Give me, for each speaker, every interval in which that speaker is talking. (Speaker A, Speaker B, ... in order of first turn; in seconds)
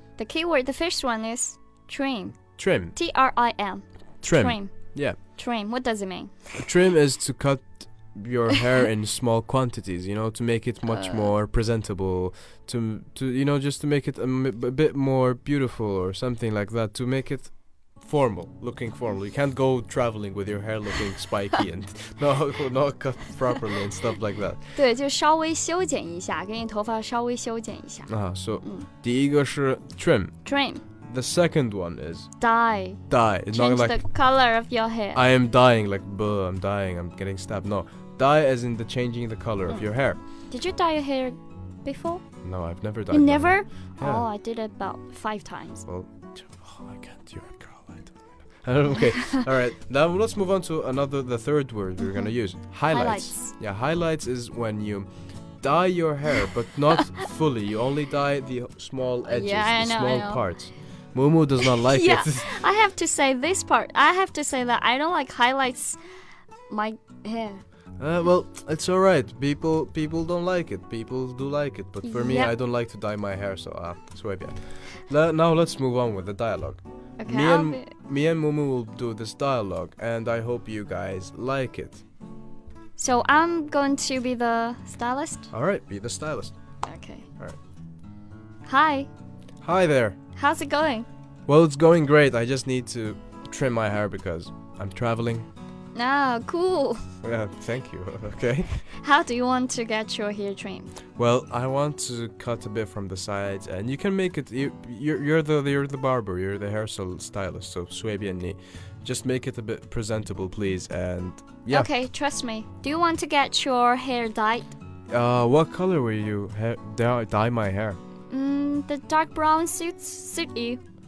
Speaker A: 0.2-6.4, 10.9-11.3, 24.8-28.1, 28.6-28.9, 30.4-30.8, 32.4-35.2, 40.5-42.2, 43.1-45.9, 52.9-53.5, 59.2-60.4, 61.6-66.0, 66.7-67.6, 72.0-72.5, 77.2-77.9, 83.0-85.5, 86.8-87.3, 88.7-89.1, 90.4-91.1, 96.0-97.0, 98.9-100.9, 111.7-114.7, 118.3-120.8
Speaker B: 2.6-3.0, 4.2-5.2, 6.6-24.6, 28.1-30.4, 31.1-32.3, 33.1-34.0, 35.1-40.2, 42.4-44.3, 45.9-55.1, 55.6-62.5, 68.0-82.0, 85.5-86.5, 89.6-90.2, 91.5-95.5, 97.2-98.8, 101.2-111.9, 115.1-118.0